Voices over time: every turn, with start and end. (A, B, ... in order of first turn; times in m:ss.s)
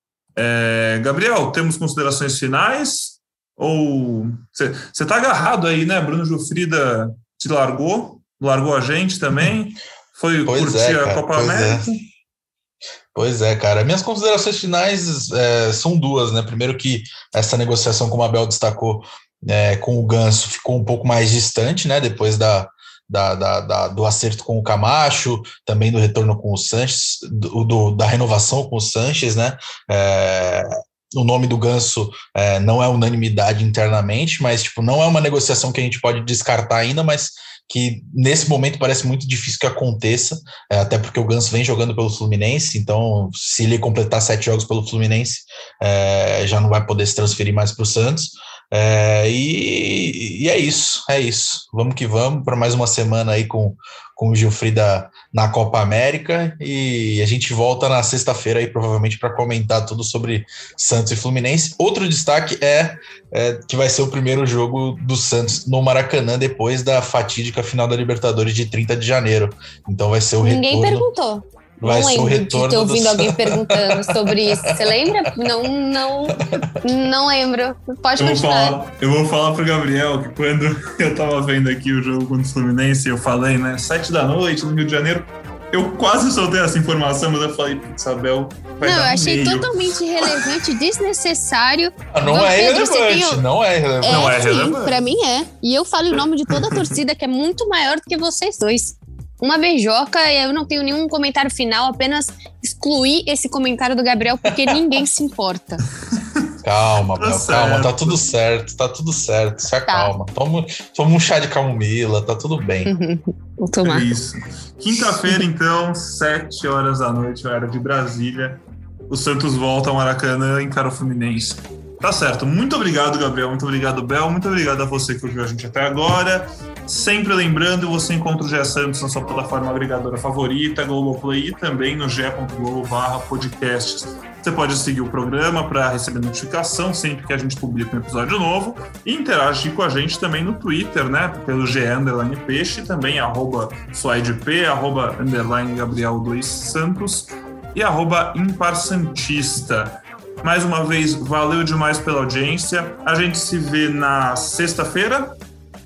0:00.4-0:11.9 A
0:10.5-0:11.9 B
0:13.1-1:11.1 B
1:10.4-1:18.8 C
1:11.8-1:15.1 B
1:16.4-1:16.7 B
1:18.2-1:30.4 A
1:28.8-1:33.4 C
1:32.1-1:34.3 B
1:34.0-1:45.8 C
1:34.1-1:35.0 A
1:36.5-1:36.9 A
1:44.5-1:44.8 B
1:46.1-1:46.5 A
1:46.6-1:52.9 B
1:47.2-1:48.2 A
1:49.9-1:50.1 C
1:52.8-1:54.1 C
1:53.8-2:35.4 A